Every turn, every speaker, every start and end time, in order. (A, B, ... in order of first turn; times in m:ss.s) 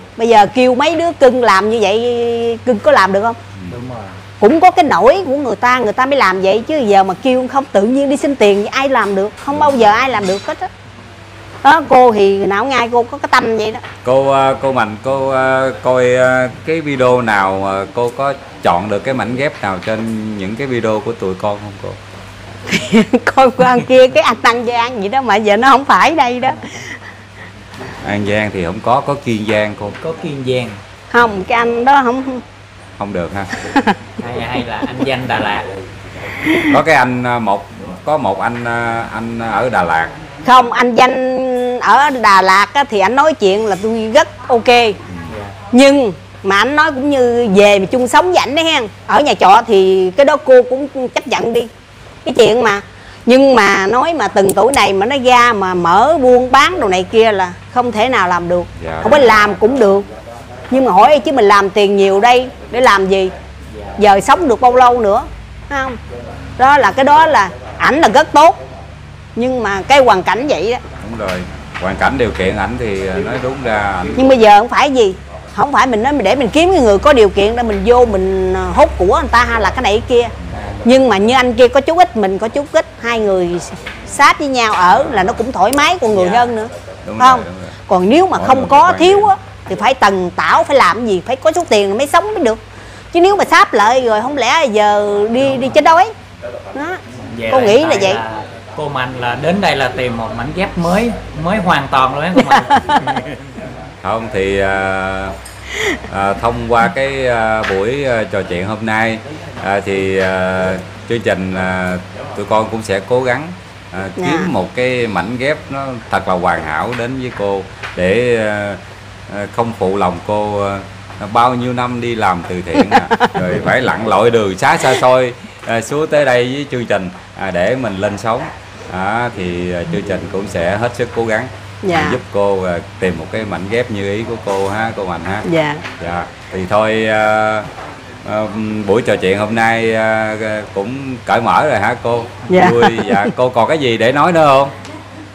0:00.2-0:03.4 A
0:03.7-0:04.2 B
0:04.4-0:10.7 A
0:11.6-0:13.8 A
0:14.0-0:22.0 C
0:22.7-0:27.0 A
0:28.0-0:30.0 C
0:30.0-0:30.8 B
0:31.1-0:32.4 A
0:33.0-0:33.5 C
0:33.6-0:34.0 A
0:34.2-0:35.7 B
0:36.4-0:36.7 A
0:36.6-0:40.1 C
0:40.4-0:45.0 A
0:45.3-0:45.6 B
0:45.7-0:51.7 A
0:52.2-1:00.1 A
0:58.8-0:59.3 C
1:00.7-1:03.3 A
1:03.7-1:04.0 B
1:04.0-1:06.0 A
1:06.6-1:08.6 A
1:09.4-1:10.8 A
1:11.0-1:14.2 C
1:14.2-1:20.3 A
1:20.5-1:20.9 B
1:20.8-1:32.6 A
1:24.9-1:25.3 C
1:26.1-1:26.5 B
1:27.0-1:27.8 C
1:28.3-1:29.3 C
1:33.1-1:36.1 A
1:36.7-1:38.2 A
1:37.3-1:43.6 B
1:42.4-1:43.1 A
1:44.0-1:45.4 C
1:46.1-2:15.5 C
1:54.2-1:54.5 A
2:02.8-2:03.5 A
2:11.8-2:12.2 A
2:15.4-2:15.8 A
2:16.0-2:17.7 C
2:18.2-2:24.7 C
2:22.5-2:23.3 A